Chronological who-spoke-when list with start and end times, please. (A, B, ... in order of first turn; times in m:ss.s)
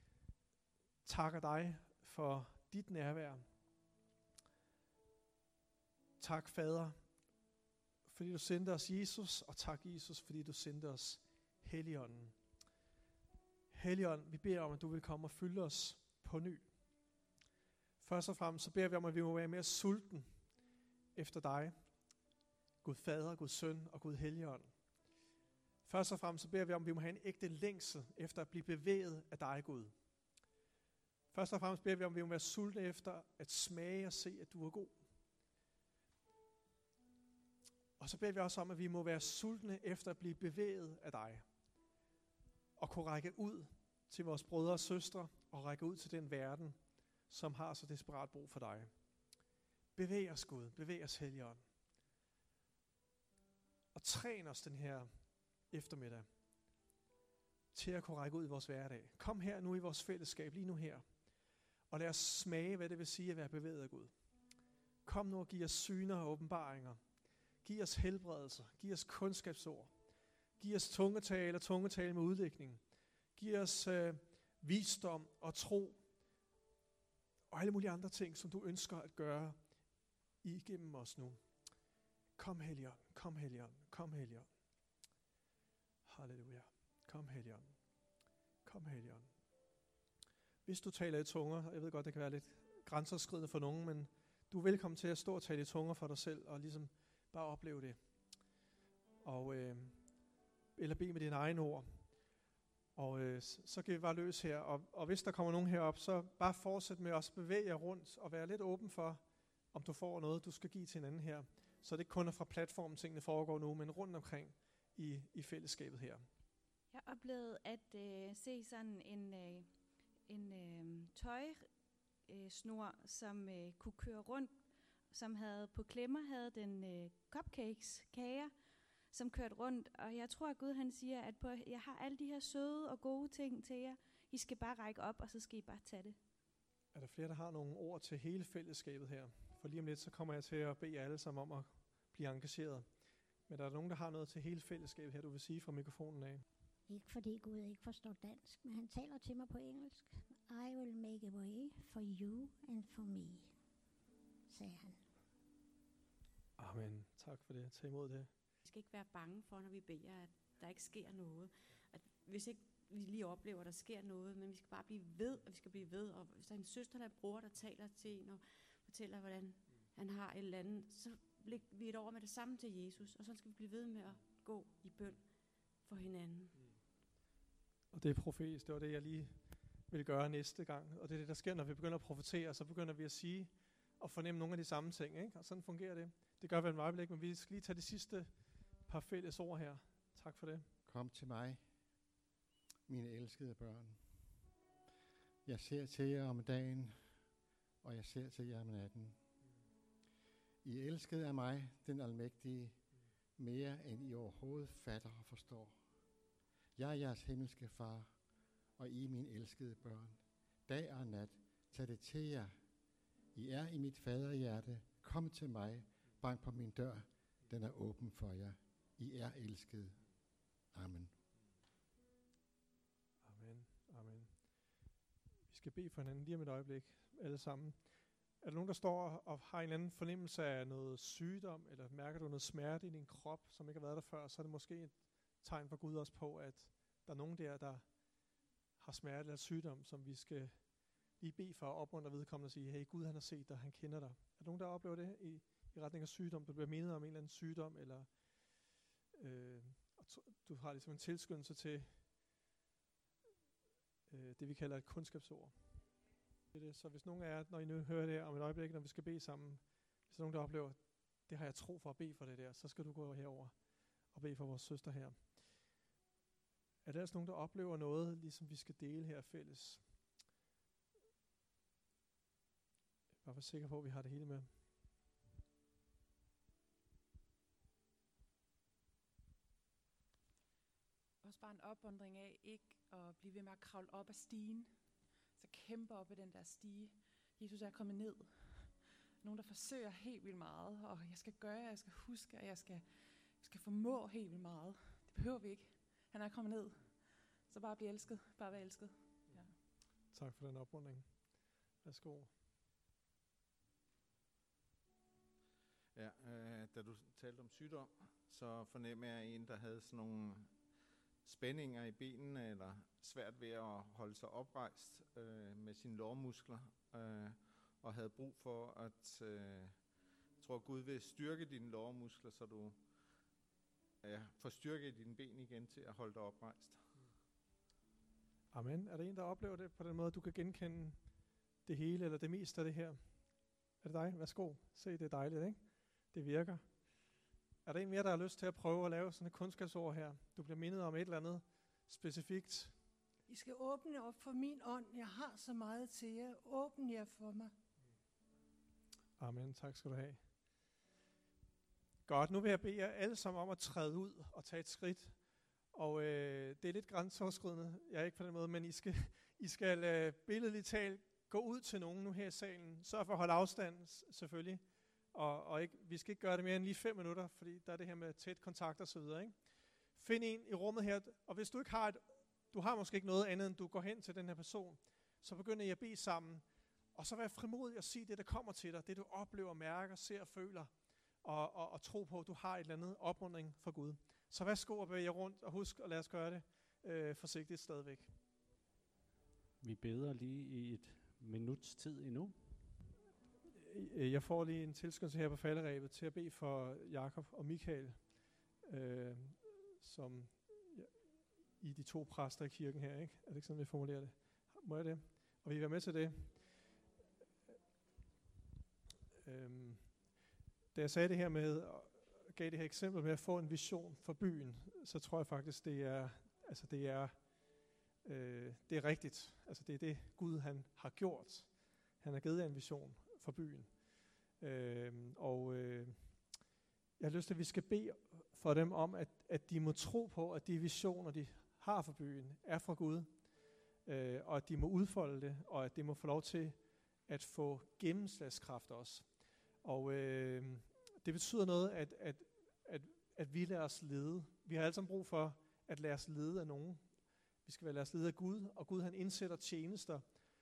0:01.0-0:03.4 A
0:06.2-0:07.0 A
0:08.1-0:12.4 A
0:13.7-0:16.7 A
0:18.0-0:20.3 A
0:21.2-0:21.8 A
0:22.8-0:24.7 A
0:25.9-0:29.9 A
0:31.3-0:35.0 A
0:38.0-0:41.4 A
0:42.8-0:46.8 A
0:47.3-0:48.9 A
0:50.0-0:51.6 A
0:54.0-0:55.1 A
0:55.7-0:56.3 A
0:57.7-1:01.0 A
1:01.9-1:04.1 A
1:05.0-1:07.0 A
1:07.6-1:09.9 A
1:10.6-1:12.8 A
1:13.4-1:16.0 A
1:17.5-1:19.6 A
1:20.4-1:21.4 A
1:22.4-1:24.5 A
1:26.1-1:27.8 A
1:28.6-1:29.3 A
1:30.7-1:38.0 A
1:39.2-1:40.0 A
1:40.8-1:42.0 A
1:43.0-1:49.2 A
1:49.7-1:56.2 A
1:56.9-1:59.7 B
2:00.3-2:01.7 B
2:02.3-2:04.5 B
2:05.1-2:08.5 B
2:09.1-2:16.2 B
2:16.9-2:22.8 A
2:23.5-2:26.4 A
2:26.9-2:33.5 C
2:34.5-2:35.0 C
2:36.6-2:38.3 A
2:38.6-2:56.6 D
2:57.9-2:59.4 A
2:59.9-3:08.3 A
3:08.9-3:10.7 A
3:10.9-3:11.6 E
3:12.9-3:14.3 E
3:15.4-3:17.0 E
3:17.8-3:19.2 E
3:20.6-3:22.8 E
3:23.4-3:25.8 E
3:26.8-3:28.1 E
3:28.8-3:32.6 E
3:33.3-3:40.1 E
3:40.7-3:41.2 E
3:43.2-3:44.3 A
3:45.5-3:47.8 A
3:48.4-3:57.8 A
3:58.8-4:00.6 A
4:01.2-4:08.1 A
4:09.2-4:12.0 A
4:14.1-4:15.5 A
4:16.5-4:23.5 A
4:24.1-4:25.2 A
4:26.8-4:29.8 A
4:33.2-4:34.5 A
4:41.2-4:44.7 F
4:45.4-4:59.6 F
5:00.1-5:01.0 A
5:01.8-5:02.3 A
5:06.0-5:10.5 G
5:11.2-5:19.8 G
5:20.4-5:22.8 G
5:24.0-5:26.8 G
5:28.5-5:31.0 A
5:31.7-5:33.0 A
5:33.8-5:36.6 A
5:37.7-5:42.7 A
5:43.3-5:47.5 H
5:49.2-5:50.2 A
5:52.1-5:55.2 A
5:55.7-6:09.3 A
6:10.0-6:16.4 A
6:17.0-6:20.7 A
6:21.2-6:28.1 A
6:29.6-6:32.4 I
6:33.6-6:38.0 A
6:38.7-6:40.9 A
6:41.6-6:46.4 A
6:49.2-6:49.9 A
6:50.7-6:57.2 A
6:58.0-7:01.5 A
7:02.0-7:03.7 A
7:04.4-7:06.0 A
7:07.0-7:13.1 A
7:13.9-7:16.6 A
7:17.1-7:19.1 A
7:19.6-7:26.8 A
7:27.5-7:30.0 A